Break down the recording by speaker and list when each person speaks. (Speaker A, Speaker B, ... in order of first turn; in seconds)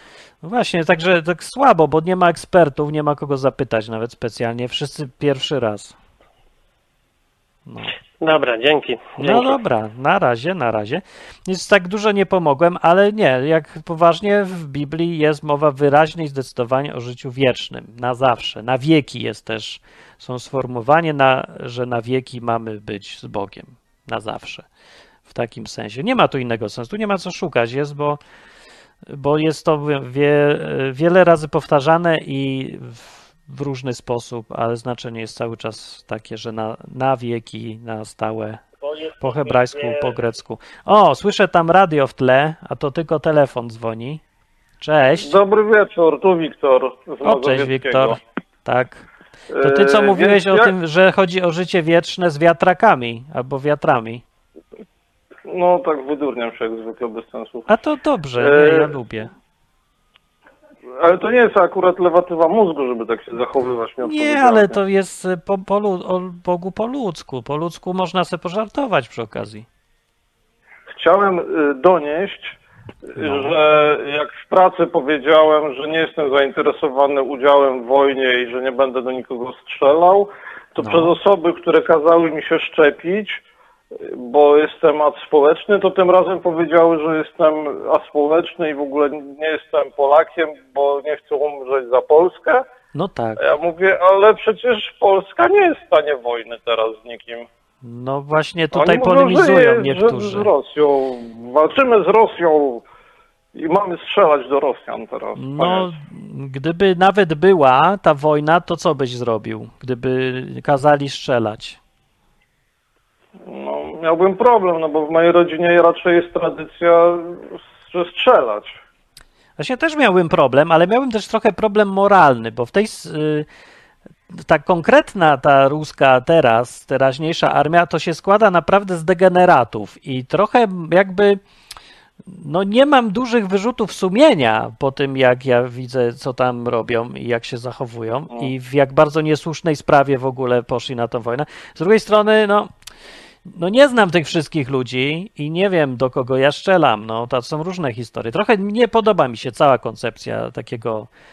Speaker A: 0.4-6.0, 7.7-7.9, 9.2-24.7, 25.3-28.2, 29.1-38.6, 39.2-44.2, 44.8-45.4, 47.2-49.1, 49.6-54.2, 57.7-59.3, 64.0-69.7, 73.2-73.5, 80.8-81.1, 92.9-93.4, 97.8-100.5, 105.4-111.8, 119.6-123.5, 124.5-131.4, 132.3-142.7, 143.5-151.1
Speaker B: 8.2-9.6, 39.1-40.1
Speaker C: 45.2-48.2, 49.5-50.7, 55.5-57.7, 58.4-58.9, 61.0-64.8, 71.0-72.6, 73.2-83.4, 84.0-92.7, 93.4-97.5, 98.7-102.8, 103.5-106.0, 113.5-118.8